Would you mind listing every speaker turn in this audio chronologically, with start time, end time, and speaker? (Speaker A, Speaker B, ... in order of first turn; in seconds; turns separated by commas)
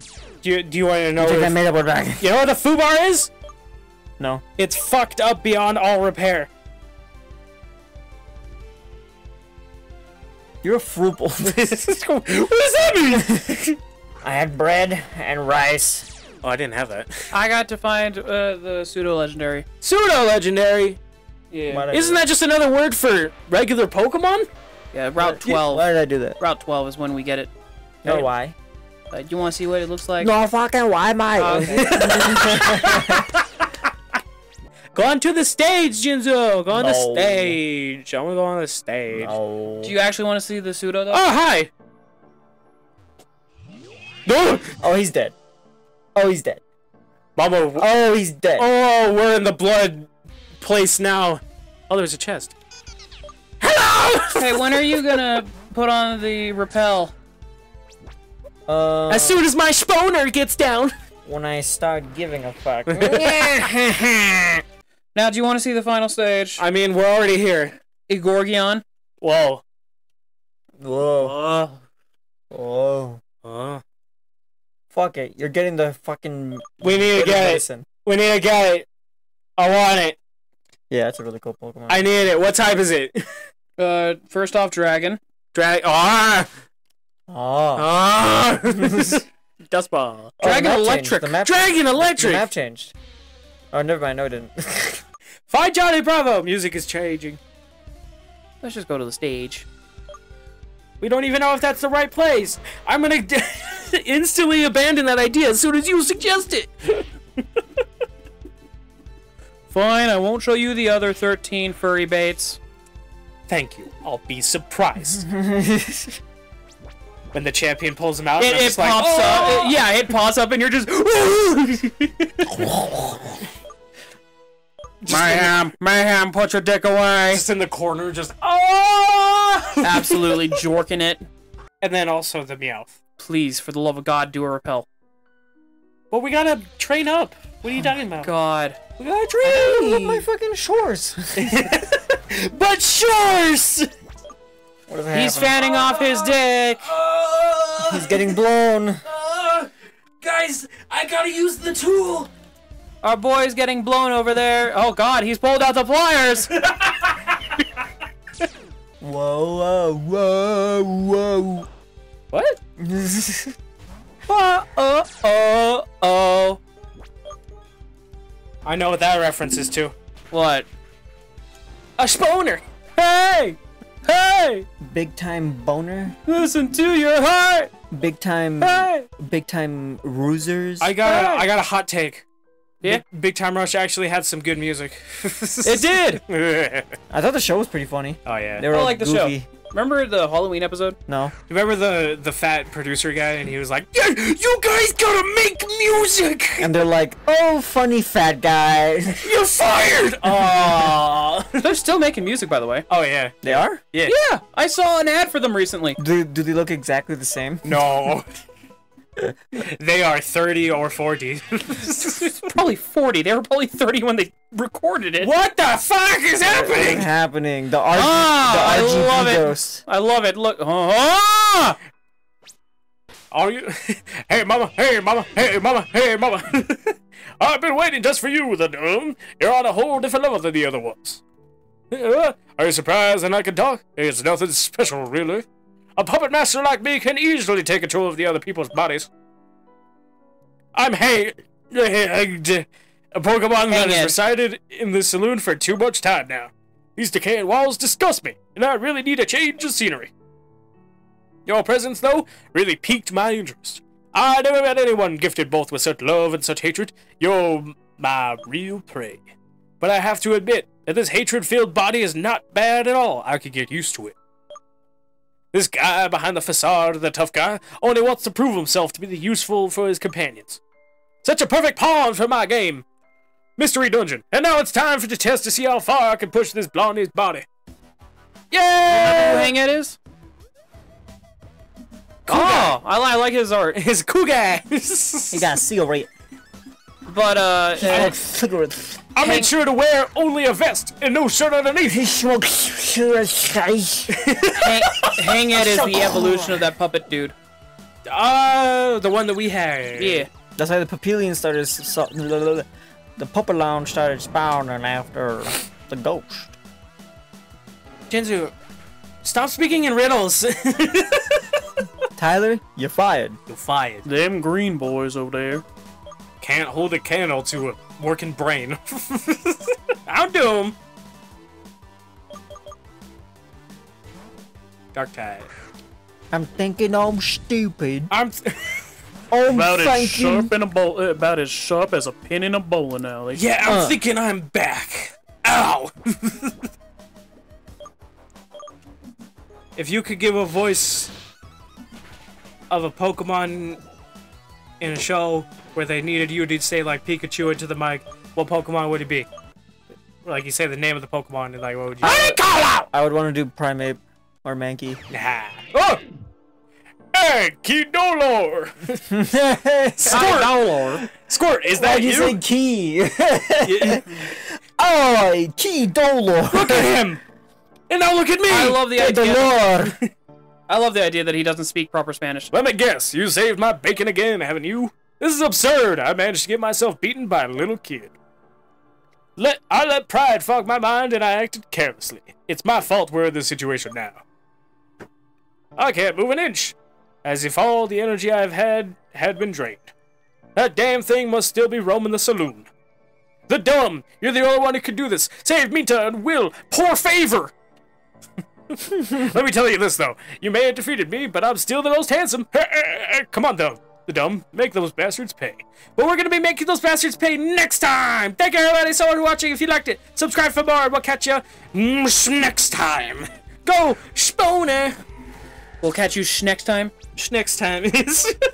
Speaker A: 0.4-1.6, Speaker B: 1.2-2.3, Speaker A: 2.2-3.3, Speaker A: 4.6-6.5, Speaker B: 10.6-11.8, Speaker A: 11.5-13.8, Speaker B: 14.2-16.1, Speaker A: 16.4-17.3, Speaker C: 17.3-19.7, Speaker A: 19.8-21.0, Speaker C: 21.5-21.9, Speaker B: 21.7-22.2, Speaker A: 21.9-24.5, Speaker C: 24.9-25.8, Speaker B: 25.2-26.4, Speaker C: 26.4-27.5, Speaker B: 28.0-28.6, Speaker C: 29.1-30.3, Speaker B: 30.2-33.3, Speaker C: 31.4-32.3, Speaker A: 31.5-33.7, Speaker A: 35.0-39.4, Speaker B: 36.7-37.6, Speaker B: 39.2-40.0, Speaker C: 39.8-41.2, Speaker A: 41.1-41.7, Speaker A: 44.3-44.7, Speaker B: 44.8-45.4, Speaker B: 46.1-46.6, Speaker A: 47.4-47.9, Speaker B: 47.8-48.7, Speaker A: 48.6-50.1, Speaker A: 50.6-52.5, Speaker A: 53.6-55.2, Speaker C: 54.4-57.1, Speaker B: 58.7-59.4, Speaker A: 59.1-60.9, Speaker B: 61.2-64.6, Speaker A: 62.9-63.7, Speaker C: 65.2-66.6, Speaker A: 66.6-67.8, Speaker C: 68.1-68.8, Speaker A: 69.2-69.6, Speaker B: 70.8-71.4, Speaker A: 71.2-71.8, Speaker B: 72.5-73.2, Speaker A: 73.4-73.8, Speaker B: 74.9-77.9, Speaker A: 76.8-78.9, Speaker A: 79.6-80.2, Speaker B: 80.9-82.1, Speaker A: 81.9-83.3, Speaker C: 83.8-85.2, Speaker A: 85.5-86.5, Speaker B: 87.3-87.9, Speaker A: 87.8-90.3, Speaker B: 88.7-89.2, Speaker B: 90.4-92.9, Speaker C: 90.4-91.3, Speaker A: 91.4-92.5, Speaker B: 93.7-95.0, Speaker A: 95.5-97.4, Speaker C: 98.6-99.7, Speaker A: 101.0-107.1, Speaker C: 109.7-112.6, Speaker A: 113.5-115.2, Speaker B: 115.2-116.2, Speaker A: 117.3-119.8, Speaker C: 118.4-122.5, Speaker A: 122.6-123.2, Speaker A: 125.0-125.5, Speaker C: 125.1-127.4, Speaker A: 127.3-130.4, Speaker C: 129.8-131.3, Speaker A: 131.8-133.0, Speaker C: 133.2-134.9, Speaker A: 136.1-138.3, Speaker C: 138.2-138.8, Speaker A: 139.0-140.3, Speaker B: 139.4-141.8, Speaker A: 141.4-143.9, Speaker B: 144.9-145.6, Speaker C: 145.1-146.9, Speaker A: 145.6-148.4, Speaker B: 147.9-149.0, Speaker A: 149.1-152.3, Speaker C: 153.0-156.5, Speaker A: 156.5-157.5, Speaker B: 159.0-161.7, Speaker B: 162.8-163.6, Speaker C: 164.3-166.6, Speaker A: 168.7-169.9, Speaker C: 170.3-170.7, Speaker A: 172.0-174.7, Speaker B: 174.8-176.2, Speaker C: 176.3-177.7, Speaker B: 177.9-180.9, Speaker A: 178.6-179.1, Speaker A: 180.8-182.2, Speaker C: 181.0-181.4, Speaker A: 182.8-187.0, Speaker C: 185.7-186.2, Speaker B: 187.1-189.5, Speaker A: 188.3-188.7, Speaker C: 188.7-191.0, Speaker B: 191.1-191.3, Speaker A: 191.5-196.8, Speaker B: 196.6-199.3, Speaker A: 199.2-201.6, Speaker B: 200.3-201.0, Speaker C: 201.6-202.9, Speaker A: 202.9-204.2, Speaker B: 203.4-203.8, Speaker C: 204.0-206.0, Speaker B: 206.0-207.7, Speaker A: 207.7-208.3, Speaker A: 209.6-212.5, Speaker C: 212.0-215.3, Speaker A: 215.2-217.1, Speaker B: 216.4-219.8, Speaker C: 217.9-221.8, Speaker A: 223.3-231.2, Speaker A: 231.9-235.4, Speaker A: 236.0-239.1, Speaker A: 240.8-250.1, Speaker C: 243.7-244.2, Speaker A: 251.5-259.2, Speaker A: 259.8-264.1, Speaker A: 265.5-270.6, Speaker A: 271.2-272.9, Speaker A: 273.6-277.4, Speaker A: 278.5-279.5, Speaker C: 278.8-280.0, Speaker A: 282.3-282.8, Speaker C: 282.3-283.8, Speaker A: 283.8-285.5, Speaker B: 285.3-286.1, Speaker C: 287.1-288.1, Speaker B: 287.8-289.0, Speaker A: 289.1-292.1, Speaker C: 289.2-289.5, Speaker B: 291.9-294.2, Speaker A: 294.1-295.3, Speaker C: 294.6-297.4, Speaker B: 295.5-296.6, Speaker A: 298.1-300.3, Speaker C: 300.0-300.3, Speaker B: 300.6-306.6, Speaker A: 308.1-308.5, Speaker A: 309.2-311.6, Speaker B: 312.2-313.4, Speaker A: 313.5-314.1, Speaker C: 314.1-315.6, Speaker A: 316.4-320.8, Speaker A: 324.9-325.5, Speaker B: 326.3-328.1, Speaker A: 328.1-328.9, Speaker B: 329.3-330.5, Speaker C: 329.5-333.4, Speaker A: 333.3-336.6, Speaker B: 333.6-334.0, Speaker A: 339.8-341.1, Speaker A: 342.7-343.8, Speaker A: 344.8-349.3, Speaker A: 350.2-352.9, Speaker B: 352.0-355.0, Speaker A: 355.1-356.0, Speaker A: 357.1-359.1, Speaker B: 359.1-360.5, Speaker A: 360.0-362.4, Speaker C: 360.1-361.1, Speaker B: 361.8-366.9, Speaker A: 363.6-364.2, Speaker A: 366.5-367.2, Speaker A: 367.9-368.8, Speaker C: 368.5-369.6, Speaker B: 368.9-370.0, Speaker C: 370.7-372.5, Speaker A: 372.5-378.1, Speaker A: 379.4-384.2, Speaker A: 385.8-389.9, Speaker A: 390.6-392.7, Speaker A: 393.5-397.5, Speaker A: 398.7-414.9, Speaker C: 415.8-416.9, Speaker A: 417.1-418.3